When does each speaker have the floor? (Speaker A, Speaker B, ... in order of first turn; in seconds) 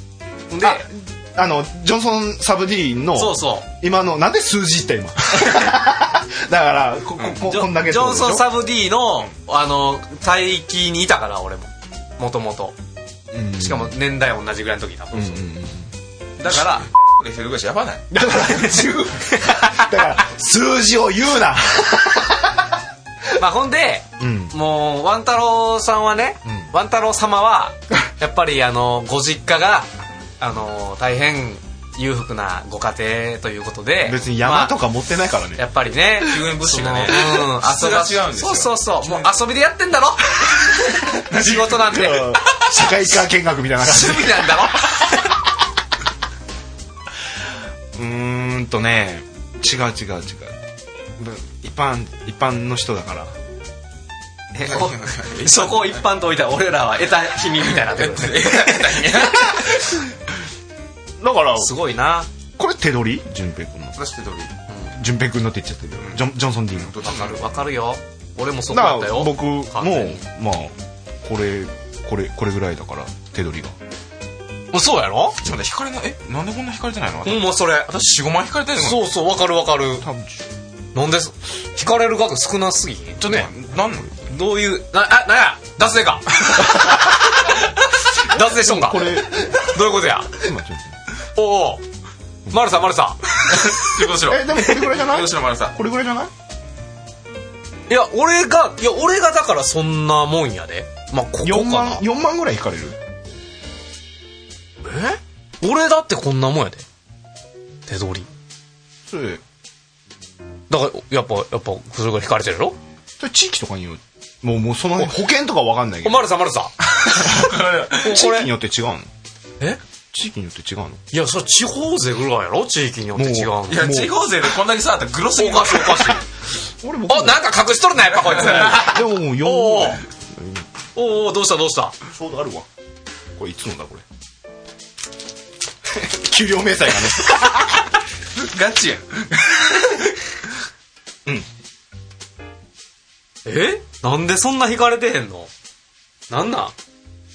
Speaker A: 0.5-0.8, 3.1-3.7, 7.4-12.8, 13.6-15.4, 16.4-16.9, 19.3-20.1, 23.4-29.9, 30.4-34.8, 35.6-42.6, 43.8-45.3, 54.5-59.7, 61.6-62.3, 67.1-70.2, 74.7-75.4, 77.2-77.9, 78.8-80.0, 80.9-83.5, 84.3-90.3, 91.4-91.8, 92.5-93.2, 97.9-102.0, 104.8-106.9, 107.9-108.3, 110.7-112.8, 116.0-116.7, 117.2-118.5, 121.1-124.0, 125.3-126.2, 127.1-130.0, 130.9-131.9, 143.4-145.5, 146.3-146.7
Speaker B: 0.6-8.5, 13.3-13.9, 15.1-15.9, 18.1-22.6, 24.2-24.5, 34.0-35.6, 41.4-44.9, 47.9-50.6, 51.2-53.3, 61.2-61.7, 62.6-64.0, 65.0-67.0, 68.7-73.8, 80.0-80.4, 88.3-89.8, 90.3-91.0, 94.2-96.3, 101.4-103.0, 109.1-109.4, 113.2-116.3, 117.2-119.1, 120.1-121.0, 123.2-124.1, 126.8-127.5, 128.3-130.7, 132.1-132.7, 133.4-134.0, 135.9-137.8
Speaker C: 16.9-18.1, 36.2-39.4, 54.6-56.0, 57.7-60.0, 64.0-64.5, 66.0-67.7, 75.4-79.0, 83.2-84.3, 93.5-95.8, 117.4-117.9, 123.7-126.2, 128.1-128.8, 138.4-140.1